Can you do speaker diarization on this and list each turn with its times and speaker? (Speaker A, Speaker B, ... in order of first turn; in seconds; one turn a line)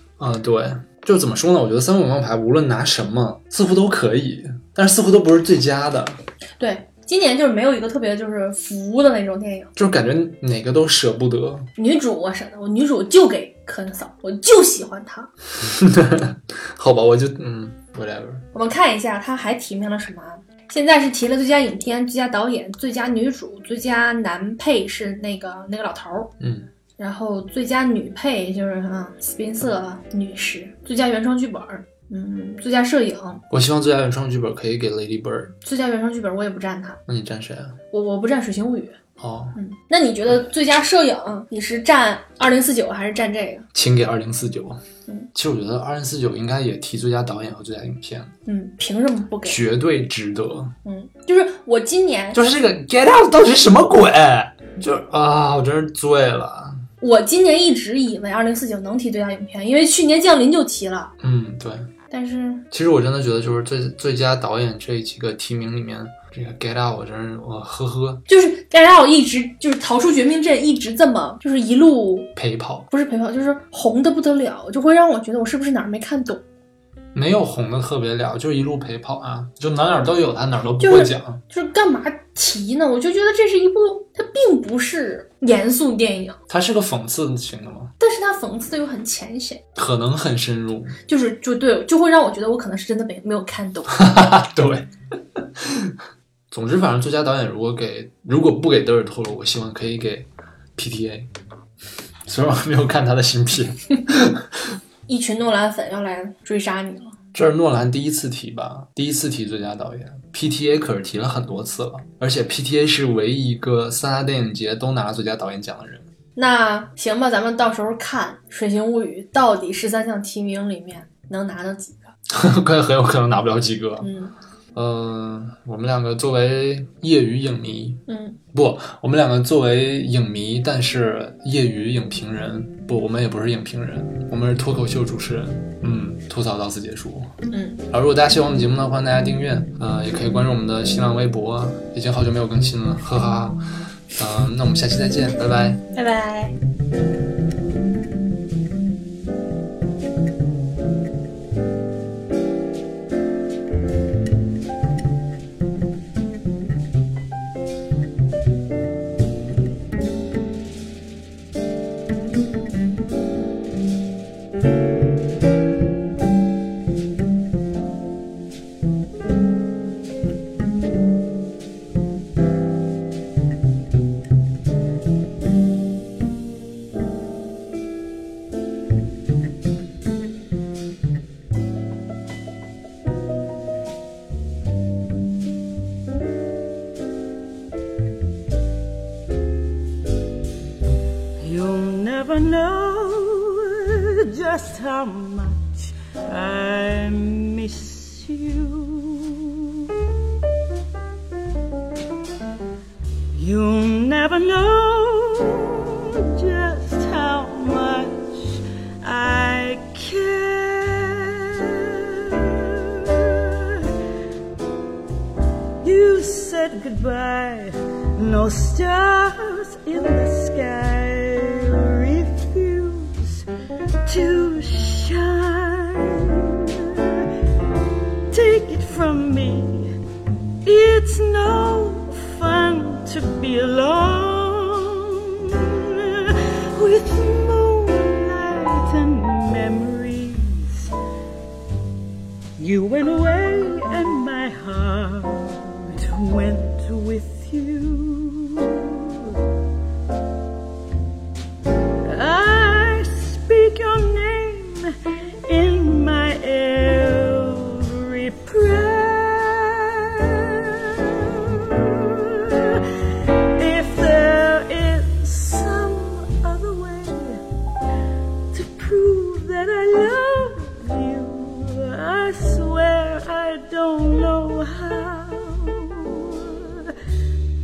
Speaker A: 0.2-6.2
Speaker B: 6.6-9.7
Speaker A: 9.8-11.7
Speaker B: 11.8-15.3
Speaker A: 15.6-18.4
Speaker B: 18.5-26.3
Speaker A: 26.4-26.7
Speaker B: 27.0-33.4
Speaker A: 33.5-35.6
Speaker B: 35.6-37.0
Speaker A: 37.1-37.8
Speaker B: 37.9-39.0
Speaker A: 39.2-39.6
Speaker B: 39.5-43.7
Speaker A: 43.7-44.8
Speaker A: 45.3-48.3
Speaker B: 48.5-49.6
Speaker A: 49.5-50.7
Speaker B: 50.8-52.4
Speaker A: 52.3-56.8
Speaker B: 57.0-61.1
Speaker A: 61.2-61.9
Speaker B: 62.1-62.7
Speaker A: 62.7-68.2
Speaker B: 68.3-72.3
Speaker A: 72.3-72.9
Speaker B: 72.9-76.4
Speaker A: 77.1-81.4
Speaker B: 80.8-86.4
Speaker A: 86.5-87.9
Speaker B: 88.0-89.6
Speaker A: 89.7-91.0
Speaker B: 91.0-94.1
Speaker A: 93.9-96.0
Speaker A: 96.5-101.3
Speaker A: 102.2-104.8
Speaker B: 105.1-107.2
Speaker A: 107.3-116.1
Speaker B: 116.3-122.1
Speaker A: 122.3-124.1
Speaker B: 124.0-124.3
Speaker A: 124.7-137.3
Speaker B: 128.1-128.4
Speaker B: 137.5-137.8
Speaker A: 137.9-145.8
Speaker B: 145.9-146.6
Speaker C: 191.4-199.9
Speaker C: 203.3-213.9
Speaker C: 215.8-223.5
Speaker C: 224.0-227.3
Speaker C: 228.3-229.9
Speaker C: 230.6-240.9
Speaker C: 242.6-249.4
Speaker C: 252.0-254.9
Speaker C: 255.4-267.4
Speaker C: 268.5-276.9